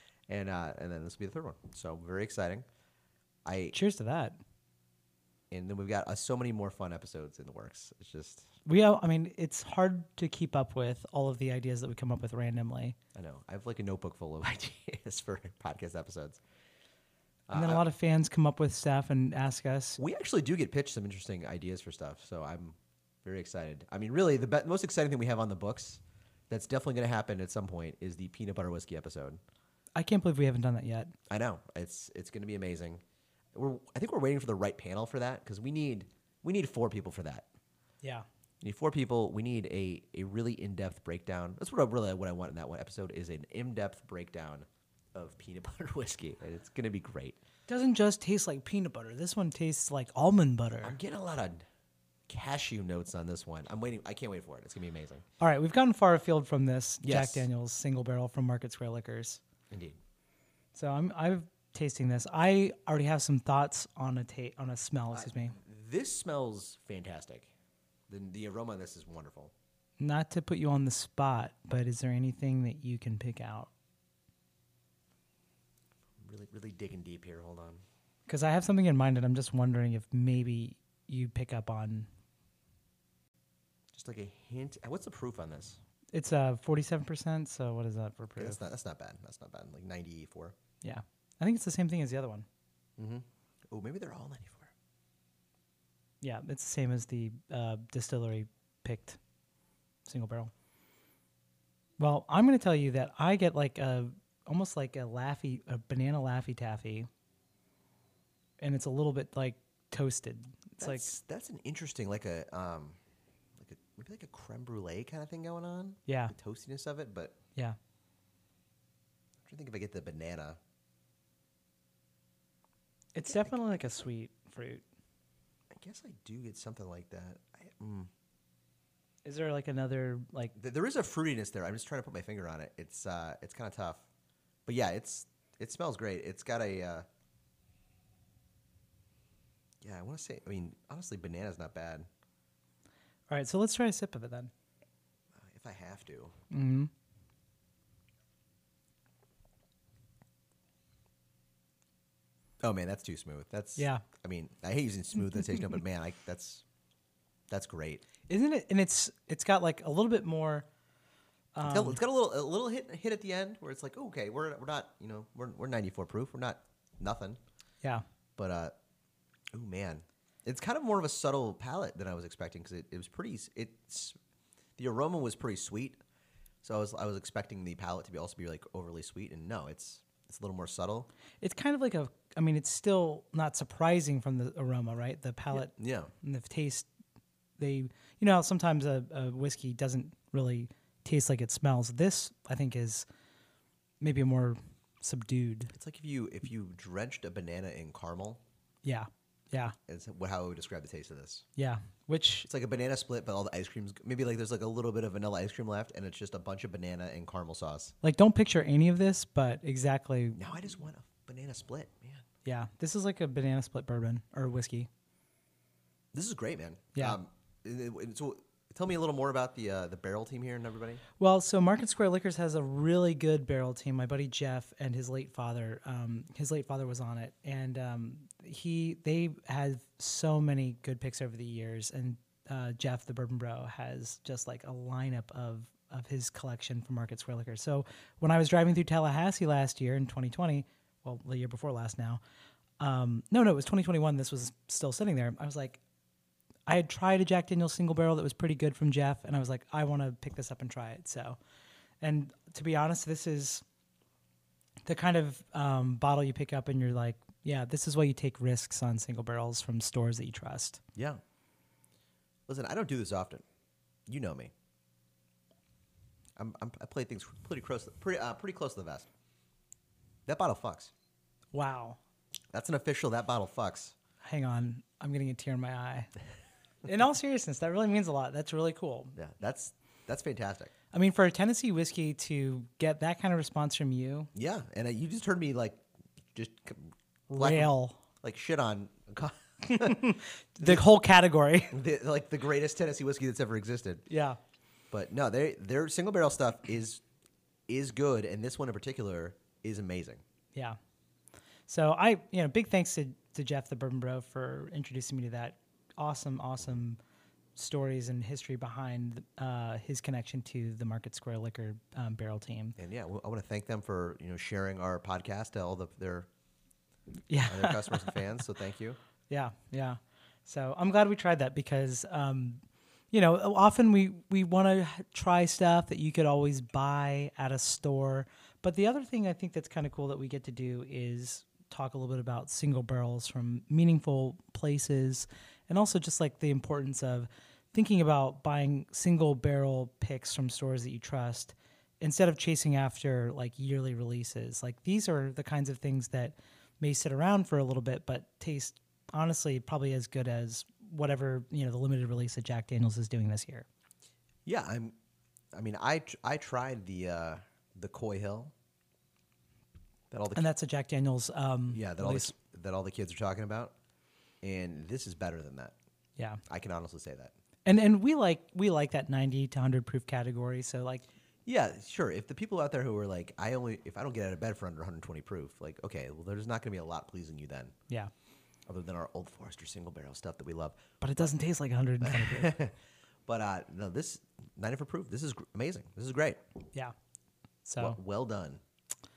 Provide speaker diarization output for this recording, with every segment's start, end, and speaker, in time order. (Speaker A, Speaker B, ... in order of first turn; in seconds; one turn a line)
Speaker A: 0.3-2.7
Speaker A: 3.5-3.8
Speaker B: 3.7-4.4
Speaker A: 5.5-8.5
Speaker B: 8.7-13.0
Speaker A: 13.2-16.4
Speaker A: 17.5-17.8
Speaker B: 17.5-20.0
Speaker A: 20.0-29.4
Speaker B: 30.0-31.1
Speaker A: 31.3-33.0
Speaker A: 33.5-37.5
Speaker A: 38.6-47.4
Speaker B: 47.7-51.0
Speaker A: 50.8-51.6
Speaker A: 52.3-55.2
Speaker B: 55.4-59.4
Speaker A: 57.0-57.5
Speaker A: 59.7-60.0
Speaker B: 60.8-65.6
Speaker A: 65.1-67.5
Speaker A: 68.1-69.5
Speaker B: 70.0-73.7
Speaker A: 76.2-77.8
Speaker B: 78.3-82.1
Speaker A: 83.9-85.8
Speaker B: 86.1-88.6
Speaker A: 88.4-90.5
Speaker B: 90.8-92.5
Speaker A: 93.0-94.7
Speaker B: 96.2-99.2
Speaker B: 100.1-100.5
Speaker B: 102.0-107.1
Speaker B: 108.6-111.1
Speaker A: 110.8-113.0
Speaker A: 113.6-117.4
Speaker B: 116.1-116.3
Speaker A: 119.4-120.6
Speaker B: 123.2-124.8
Speaker A: 125.7-128.1
Speaker B: 129.2-130.5
Speaker A: 130.6-134.1
Speaker A: 134.7-137.1
Speaker A: 139.8-142.1
Speaker B: 143.3-144.5
Speaker A: 145.3-146.4
Speaker B: 146.5-146.9
Speaker A: 152.6-156.6
Speaker B: 153.8-154.1
Speaker A: 157.5-158.1
Speaker B: 158.3-160.7
Speaker B: 161.6-162.0
Speaker A: 161.7-167.4
Speaker A: 168.4-168.7
Speaker A: 169.5-174.2
Speaker A: 174.8-176.0
Speaker A: 176.6-181.1
Speaker B: 181.4-186.9
Speaker A: 185.5-186.1
Speaker B: 187.6-193.1
Speaker B: 194.0-195.7
Speaker A: 195.7-198.4
Speaker B: 198.8-199.8
Speaker A: 199.9-201.4
Speaker B: 201.6-202.5
Speaker A: 202.5-207.9
Speaker B: 208.0-210.4
Speaker A: 210.4-212.3
Speaker B: 212.4-214.9
Speaker A: 216.1-221.0
Speaker B: 221.2-242.2
Speaker B: 242.8-245.8
Speaker B: 246.7-251.4
Speaker B: 252.0-253.6
Speaker B: 254.9-260.8
Speaker A: 260.9-261.2
Speaker A: 262.5-263.4
Speaker A: 264.1-264.5
Speaker A: 266.4-269.1
Speaker A: 270.3-270.9
Speaker B: 271.5-272.0
Speaker A: 272.5-273.9
Speaker B: 274.2-276.1
Speaker B: 276.8-279.1
Speaker A: 279.2-280.7
Speaker B: 280.9-284.3
Speaker A: 284.3-285.8
Speaker A: 286.3-287.7
Speaker B: 287.3-288.0
Speaker A: 288.2-290.9
Speaker B: 289.6-291.8
Speaker A: 291.7-294.1
Speaker B: 294.1-294.4
Speaker A: 294.9-297.0
Speaker A: 297.7-300.2
Speaker B: 301.7-307.0
Speaker B: 307.6-312.8
Speaker A: 312.8-316.3
Speaker B: 317.3-318.3
Speaker A: 317.4-319.0
Speaker B: 319.3-322.6
Speaker B: 323.1-353.7
Speaker A: 354.5-354.9
Speaker A: 355.5-358.5
Speaker A: 360.1-360.5
Speaker B: 360.4-362.3
Speaker A: 361.7-363.7
Speaker A: 364.4-365.8
Speaker B: 366.2-366.4
Speaker A: 366.5-367.3
Speaker B: 367.6-371.1
Speaker A: 371.5-377.8
Speaker A: 378.7-380.8
Speaker B: 381.0-382.6
Speaker A: 382.0-386.4
Speaker B: 387.6-388.0
Speaker A: 387.8-388.6